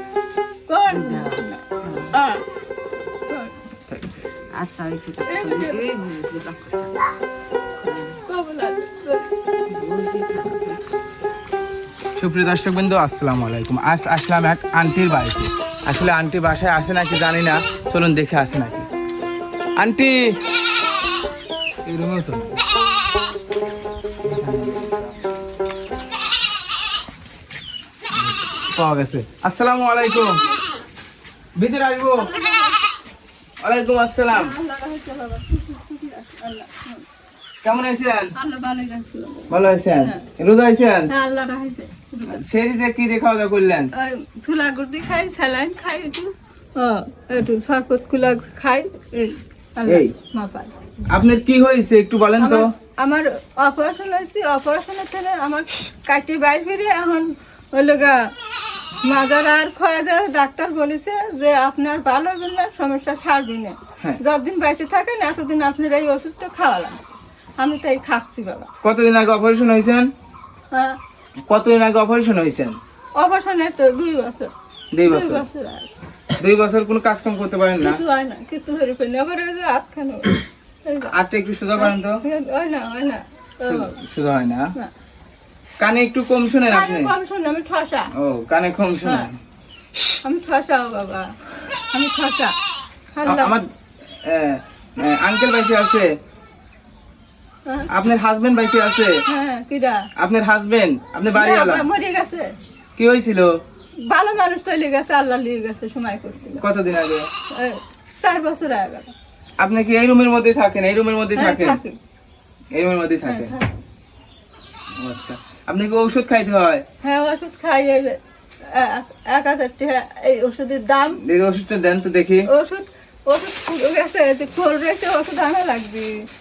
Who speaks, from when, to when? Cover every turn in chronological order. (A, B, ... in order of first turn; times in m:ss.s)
0:00.7-0:02.4 A
0:00.9-0:02.1 B
0:03.3-0:03.6 A
0:03.9-0:04.3 C
0:04.6-0:06.9 B
0:05.3-0:05.8 A
0:07.8-0:08.2 B
0:08.2-0:09.3 A
0:09.7-0:10.9 B
0:12.2-0:18.9 C
0:19.8-0:20.3 C
0:21.8-0:22.6 C
0:24.4-0:24.8 B
0:24.4-0:24.7 C
0:28.1-0:30.4 C
0:31.6-0:32.3 C
0:32.2-0:32.8 A
0:33.6-0:34.5 C
0:34.3-0:37.0 A
0:37.6-0:38.3 C
0:38.4-0:40.2 A
0:39.5-0:41.1 C
0:41.1-0:42.4 A
0:42.3-0:43.9 C
0:43.9-0:50.7 A
0:49.8-0:50.1 C
0:51.1-0:52.6 C
0:52.4-0:58.2 A
0:59.0-1:08.7 A
1:08.8-1:10.1 C
1:10.7-1:11.0 A
1:11.5-1:12.8 C
1:13.2-1:14.5 A
1:14.9-1:15.4 C
1:15.0-1:16.0 A
1:16.4-1:18.0 C
1:17.8-1:21.1 A
1:21.0-1:22.2 C
1:21.8-1:23.9 A
1:23.6-1:24.7 C
1:25.8-1:27.1 C
1:26.6-1:28.1 A
1:28.2-1:29.4 C
1:29.0-1:29.3 A
1:30.2-1:31.3 A
1:31.9-1:32.5 A
1:33.1-1:33.6 A
1:33.2-1:36.1 C
1:37.9-1:39.2 C
1:39.3-1:40.0 A
1:40.2-1:41.9 C
1:41.3-1:42.5 A
1:43.0-1:43.5 C
1:44.1-1:46.6 A
1:46.6-1:47.3 C
1:47.5-1:49.1 A
1:49.6-1:51.8 C
1:51.3-1:52.0 A
1:52.7-1:53.5 C
1:53.2-1:53.7 A
1:55.0-1:56.8 C
1:57.0-1:58.2 A
1:58.7-2:01.2 A
2:01.2-2:02.4 C
2:02.5-2:06.1 A